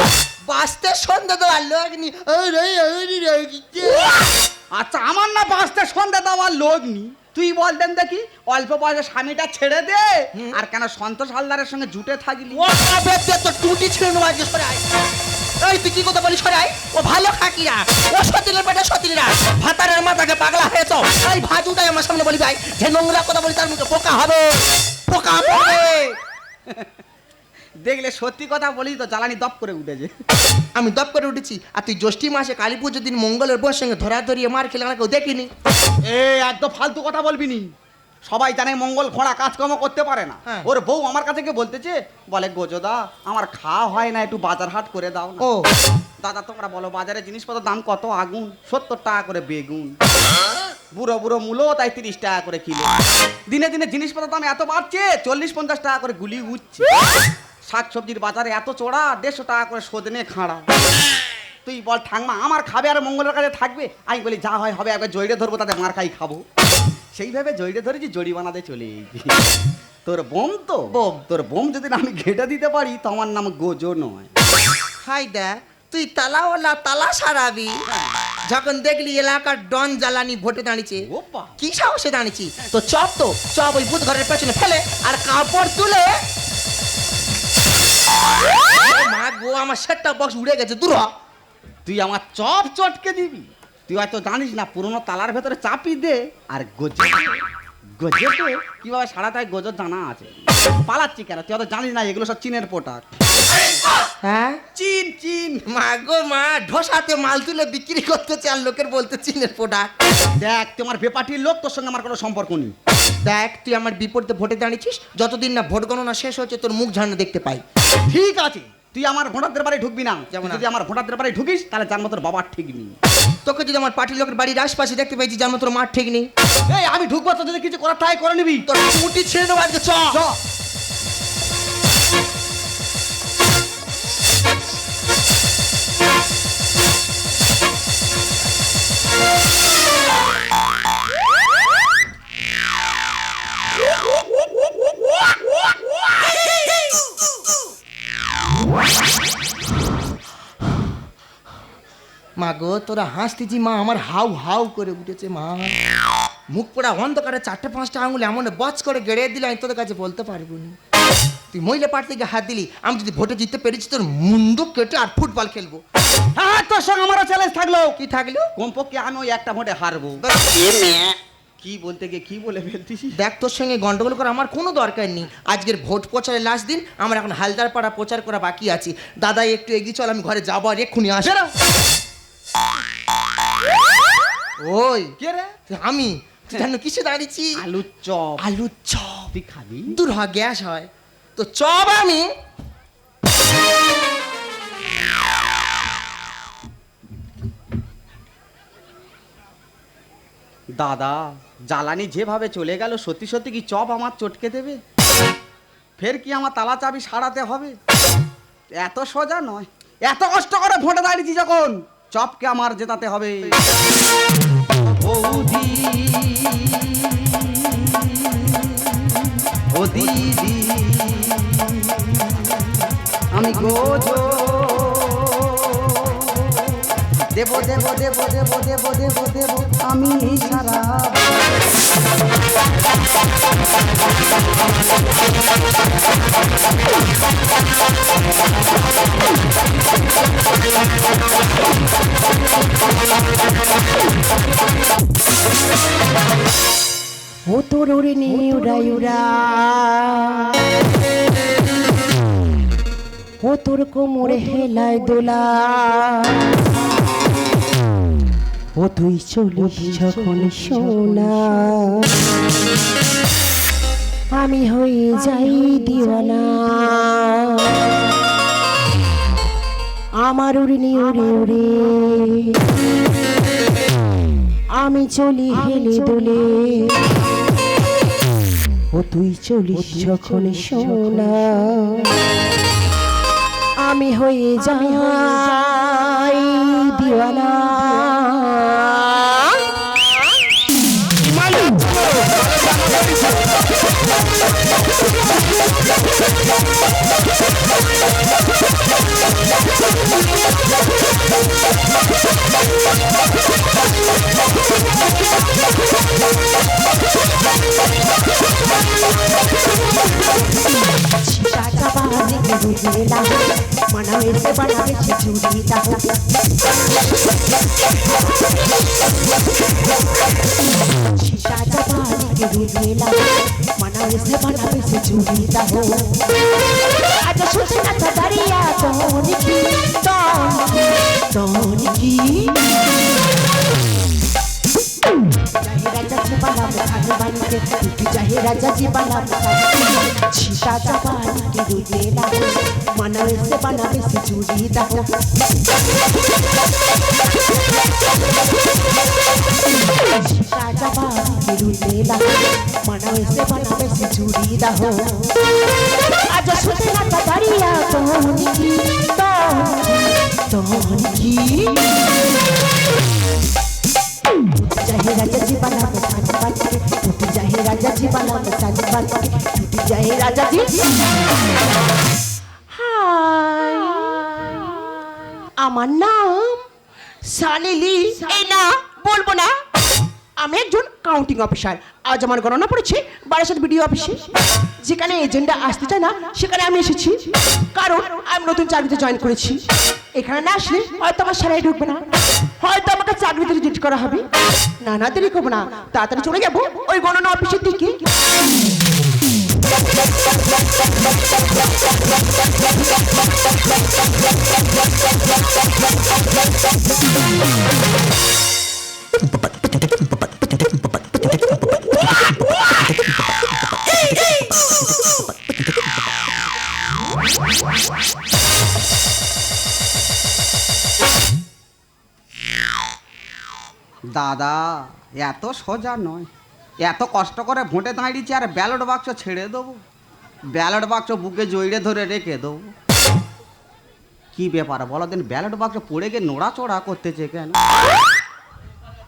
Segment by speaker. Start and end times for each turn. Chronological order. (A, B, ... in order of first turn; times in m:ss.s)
0:00.5-0:04.2 A
0:04.7-0:12.7 B
0:12.5-0:14.8 A
0:15.6-0:26.2 A
0:27.8-0:30.2 B
0:30.8-0:35.5 A
0:36.0-0:37.7 B
0:38.3-0:45.4 B
0:45.4-0:45.7 A
0:46.2-0:50.0 B
0:51.0-0:52.9 B
0:53.5-0:57.0 B
0:57.7-1:00.7 B
1:01.6-1:06.4 B
1:07.2-1:09.5 B
1:10.0-1:14.3 B
1:10.9-1:11.2 A
1:15.0-1:17.8 A
1:18.5-1:21.0 A
1:21.1-1:21.6 B
1:21.6-1:26.2 A
1:28.6-1:31.1 A
1:31.8-1:37.4 B
1:38.0-1:43.1 B
1:44.2-1:44.6 A
1:44.7-1:45.7 B
1:45.7-1:49.9 A
1:50.4-1:52.8 B
1:53.2-1:57.6 A
1:58.1-2:03.0 B
2:00.3-2:00.6 A
2:03.5-2:06.3 A
2:06.7-2:08.7 B
2:08.7-2:10.2 A
2:10.1-2:10.4 B
2:32.4-2:35.7 A
2:36.5-2:40.8 A
2:41.5-2:45.8 A
2:46.4-2:48.0 B
2:48.0-2:48.5 A
2:48.6-2:50.2 B
2:50.2-2:51.2 A
2:51.6-2:53.2 B
2:53.2-3:01.4 A
3:01.2-3:01.5 B
3:04.6-3:05.2 A
3:05.2-3:05.6 B
3:05.7-3:07.6 A
3:07.6-3:08.4 B
3:08.4-3:09.3 A
3:09.3-3:10.0 B
3:09.9-3:12.3 A
3:20.8-3:24.8 B
3:26.0-3:27.8 B
3:28.8-3:33.6 B
3:34.8-3:42.4 B
3:43.4-3:46.7 B
3:47.4-3:51.3 B
4:07.5-4:10.5 C
4:08.4-4:09.3 A
4:13.4-4:16.0 C
4:14.1-4:16.4 A
4:18.8-4:21.9 A
4:19.6-4:21.9 C
4:24.3-4:27.8 C
4:30.2-4:32.6 C
4:34.8-4:37.0 C
4:35.5-4:36.3 A
4:39.0-4:41.7 A
4:39.1-4:41.8 C
4:43.8-4:49.8 C
5:11.3-5:16.1 C
5:21.2-5:23.2 C
5:23.8-5:26.1 C
5:27.1-5:32.7 C
5:35.6-5:45.1 C
5:50.0-5:52.3 C
5:52.8-5:55.3 C
5:56.3-6:01.9 C
6:04.5-6:10.8 C
6:12.7-6:16.7 C
6:17.2-6:19.6 C
6:20.4-6:29.6 C
6:30.2-6:34.3 C
6:34.8-6:38.0 C
7:04.1-7:06.3 B
7:06.8-7:09.8 B
7:10.5-7:12.7 B
7:14.4-7:17.6 B